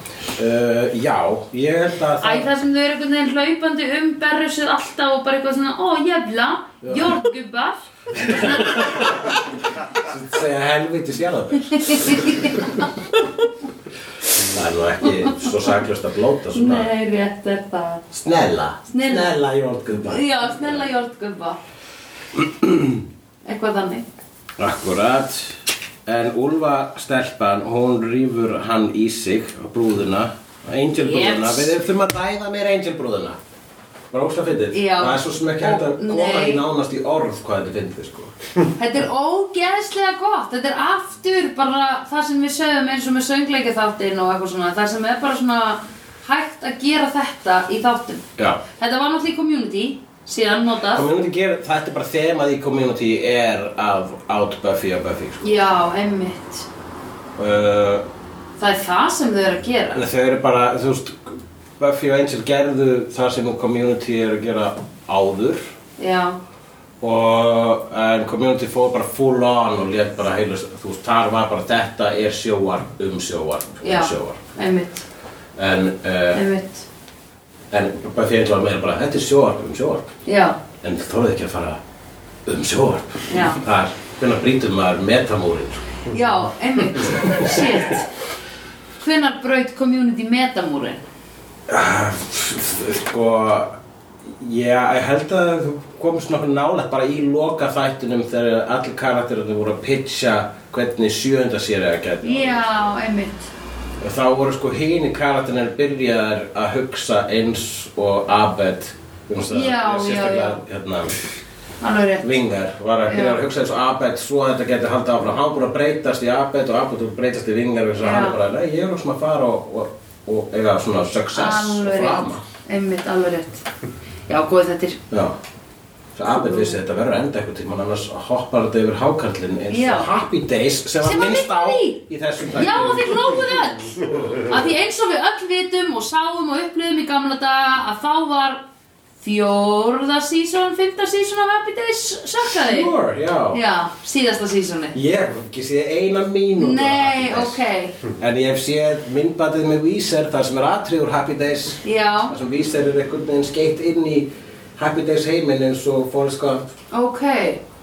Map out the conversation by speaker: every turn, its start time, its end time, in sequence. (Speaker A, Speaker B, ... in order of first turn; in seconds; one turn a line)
Speaker A: 0.3-2.5
Speaker B: 2.2-8.9
Speaker A: 6.8-7.1
Speaker A: 8.2-9.3
Speaker A: 9.9-12.8
Speaker B: 11.7-12.9
Speaker A: 14.3-16.9
Speaker B: 16.5-18.0
Speaker A: 18.1-20.9
Speaker B: 18.9-19.3
Speaker B: 20.1-21.6
Speaker A: 22.4-23.0
Speaker B: 23.4-24.1
Speaker A: 24.6-33.4
Speaker B: 31.0-31.7
Speaker A: 34.1-38.3
Speaker B: 34.7-36.6
Speaker B: 38.8-48.2
Speaker A: 48.4-48.6
Speaker B: 48.8-51.1
Speaker A: 50.9-55.5
Speaker B: 55.4-56.7
Speaker A: 57.4-58.1
Speaker B: 58.6-60.0
Speaker A: 59.9-65.6
Speaker B: 66.0-66.4
Speaker A: 67.0-74.4
Speaker B: 73.8-75.0
Speaker A: 75.6-76.4
Speaker B: 76.3-76.9
Speaker A: 77.7-80.1
Speaker B: 80.3-80.6
Speaker A: 80.8-81.8
Speaker A: 82.5-85.8
Speaker B: 83.3-83.6
Speaker B: 86.1-88.1
Speaker A: 87.0-87.5
Speaker B: 89.0-91.0
Speaker A: 91.7-102.7
Speaker B: 102.2-103.5
Speaker A: 104.0-111.2
Speaker B: 109.5-110.6
Speaker B: 111.8-112.3
Speaker A: 112.2-122.4
Speaker B: 113.1-113.4
Speaker B: 118.0-118.4
Speaker B: 121.3-123.7
Speaker B: 124.3-125.0
Speaker A: 125.1-125.4
Speaker A: 126.2-133.4
Speaker B: 129.7-130.1
Speaker B: 131.0-132.0
Speaker B: 132.5-138.6
Speaker A: 134.0-134.6
Speaker B: 139.2-142.9
Speaker A: 142.6-143.6
Speaker B: 143.5-145.0
Speaker A: 144.9-147.6
Speaker B: 146.6-148.0
Speaker A: 148.2-156.7
Speaker B: 151.8-152.3
Speaker B: 156.9-157.6